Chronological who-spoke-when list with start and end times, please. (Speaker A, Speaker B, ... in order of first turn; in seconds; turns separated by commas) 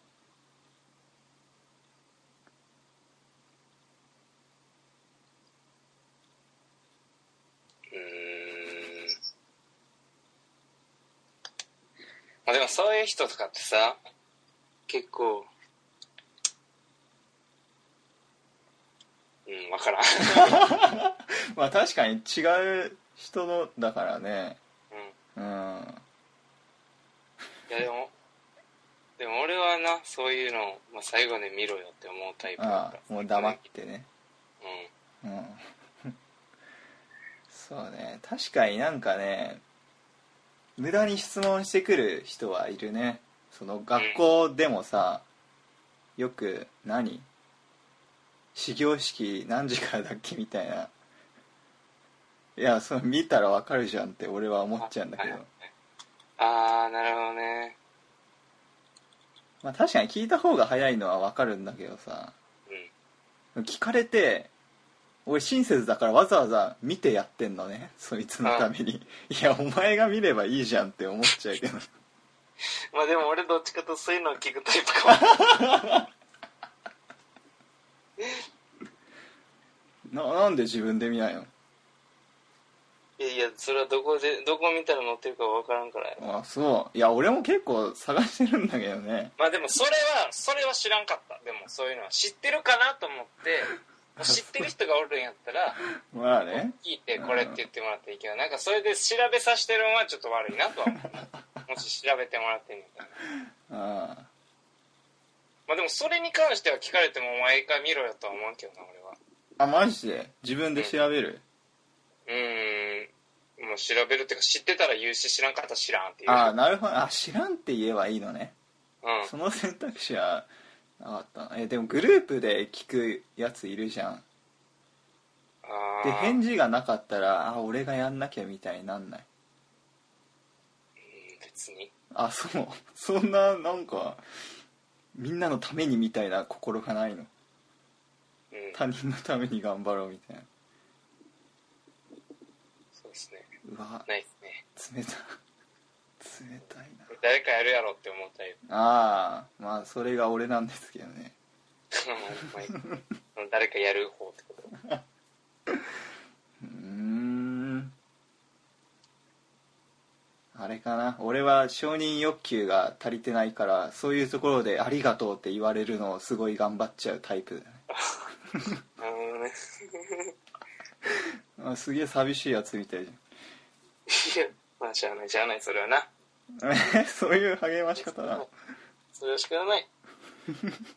Speaker A: 7.9-9.1, Speaker A: 12.4-14.0, Speaker A: 14.9-15.5, Speaker A: 19.5-20.7, Speaker B: 20.4-24.6, Speaker B: 25.4-26.0, Speaker A: 27.7-28.1, Speaker A: 29.2-33.6, Speaker B: 32.6-34.1, Speaker A: 34.6-34.9, Speaker B: 35.2-36.1, Speaker B: 37.5-39.6, Speaker B: 40.8-45.3, Speaker A: 44.0-44.2, Speaker B: 46.2-47.3, Speaker B: 48.5-50.9, Speaker B: 52.5-55.5, Speaker A: 54.8-55.4, Speaker A: 56.4-57.8, Speaker B: 59.6-62.3, Speaker B: 63.5-64.5, Speaker B: 65.3-71.9, Speaker A: 68.4-68.7, Speaker A: 72.9-75.4, Speaker B: 75.3-76.0, Speaker B: 80.1-81.5, Speaker A: 83.2-86.2, Speaker B: 86.2-89.3, Speaker A: 89.4-95.8, Speaker B: 94.2-94.6, Speaker B: 96.1-97.6, Speaker A: 96.4-103.2, Speaker B: 103.7-104.3, Speaker A: 105.7-109.2, Speaker B: 109.6-111.4, Speaker A: 112.3-116.5, Speaker B: 116.3-118.5, Speaker A: 119.0-119.3, Speaker B: 119.2-124.2, Speaker A: 125.6-126.4, Speaker B: 126.0-129.3, Speaker A: 131.0-131.9, Speaker B: 132.1-134.2, Speaker B: 135.1-137.3, Speaker A: 138.5-138.8, Speaker B: 138.8-140.5, Speaker A: 143.0-143.5, Speaker B: 143.6-144.1, Speaker A: 144.1-144.6, Speaker B: 144.8-145.3, Speaker B: 146.2-147.1, Speaker A: 147.1-148.6, Speaker B: 148.7-151.3, Speaker A: 151.9-152.8, Speaker A: 153.3-154.7, Speaker B: 156.6-157.9, Speaker B: 160.5-167.8, Speaker A: 167.9-168.2, Speaker A: 169.0-170.3, Speaker B: 171.6-173.2, Speaker A: 174.1-176.1, Speaker B: 176.6-178.5, Speaker A: 177.9-178.5, Speaker A: 179.1-179.9